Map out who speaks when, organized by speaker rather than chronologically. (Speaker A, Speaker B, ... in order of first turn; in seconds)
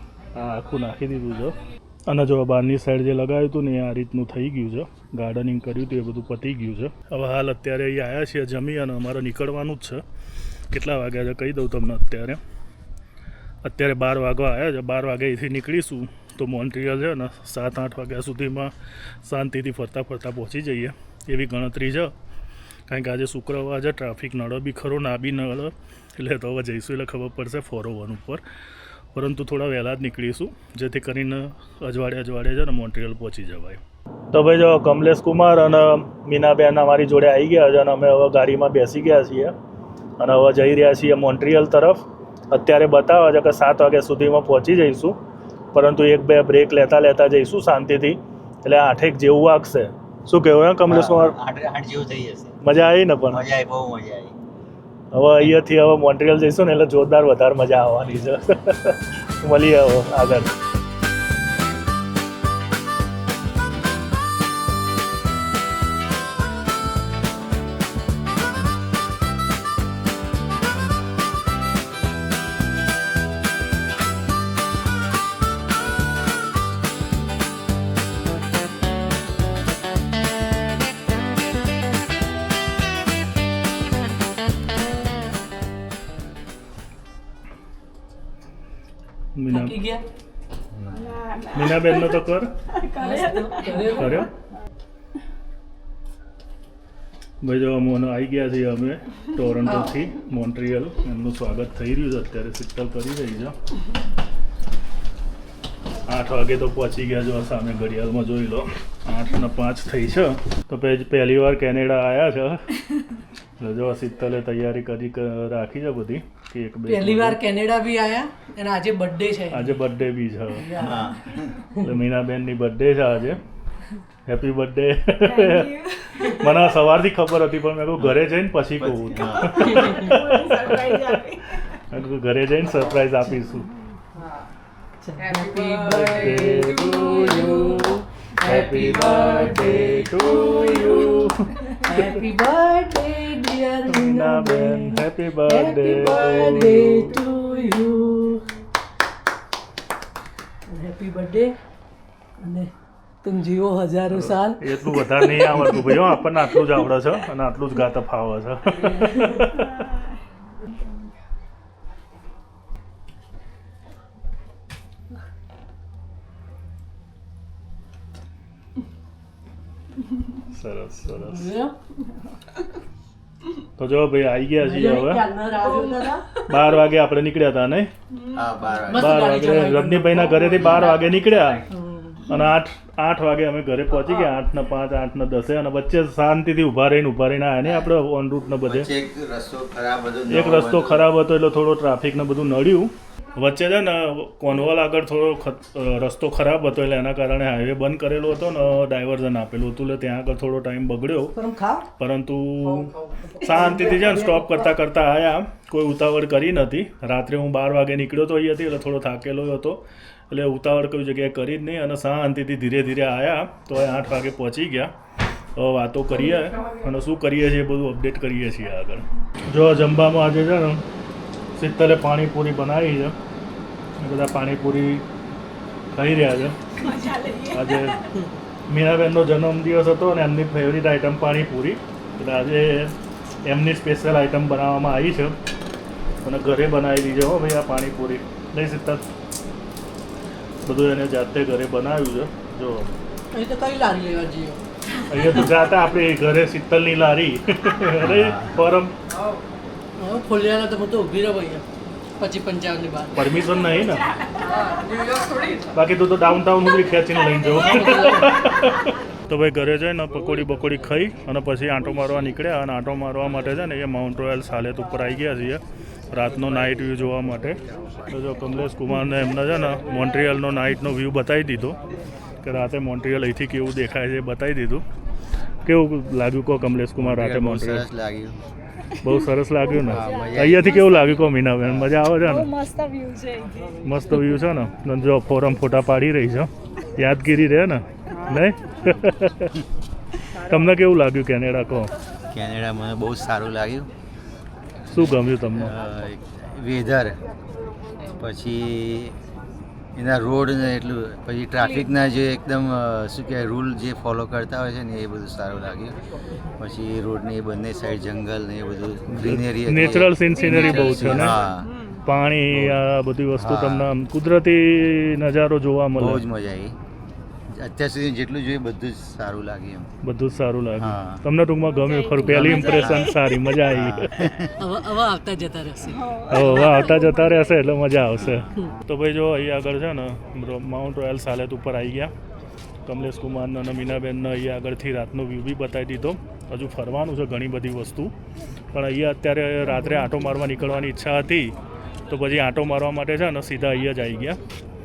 Speaker A: 0.3-10.0, 10.7-12.4, 13.6-22.1, 22.9-28.4, 29.1-39.5, 40.2-45.2, 45.7-51.4, 52.6-53.5, 55.1-60.5, 89.3-89.8, 91.5-92.5, 93.8-94.3, 97.4-103.6, 106.1-112.9, 113.6-117.4, 119.5-120.9, 121.8-123.4, 124.3-133.7, 135.8-142.3, 143.9-147.2, 154.1-160.0, 170.4-171.5, 173.8-175.3, 176.5-177.9, 178.9-181.7, 182.3-188.9, 190.3-201.4, 202.0-214.9, 215.6-220.8, 221.6-223.2, 224.0-225.1, 225.9-226.9, 227.5-228.1, 228.7-235.4, 236.2-239.1, 240.6-242.9, 245.1-248.9, 253.1-254.1, 255.7-271.8, 272.4-274.8, 275.6-277.9, 278.9-282.6, 283.8-289.6, 290.3-291.9, 294.9-295.8, 309.1-311.4, 312.0-316.2, 320.0-324.3, 326.2-332.1, 332.9-338.1, 338.7-341.6, 342.1-344.4
Speaker B: 50.9-52.6, 53.3-54.4, 90.7-91.2, 120.8-121.6, 128.0-130.0, 178.3-179.3, 180.6-180.9, 187.6-187.9, 188.6-191.1, 248.0-248.6, 277.0-278.4, 279.8-280.8, 281.6-281.9, 292.3-293.9, 294.9-297.1, 298.1-299.2, 299.9-306.0, 306.6-311.7, 312.5-312.8, 313.4-313.9, 316.0-316.8, 317.5-319.9, 320.8-321.2, 322.2-324.6, 328.2-328.5
Speaker C: 89.5-90.0, 92.9-94.3, 116.9-119.8, 120.6-121.1, 129.8-130.2, 135.0-148.5, 150.7-151.6, 152.4-156.6, 158.8-159.5, 171.1-171.8, 174.6-176.3, 178.9-180.8, 181.7-182.2, 201.3-201.9, 203.3-204.8, 243.3-244.6, 245.2-245.5, 250.0-251.7, 252.2-253.2, 257.5-258.4, 324.6-326.7
Speaker D: 91.1-92.1, 92.6-93.9, 125.3-126.6, 129.6-131.6, 135.3-137.3, 140.3-140.9, 146.4-147.4, 175.7-176.1, 178.2-178.7, 180.9-181.6, 226.8-227.9, 254.1-254.5, 282.2-283.8, 310.2-312.0, 321.8-323.6, 326.0-327.5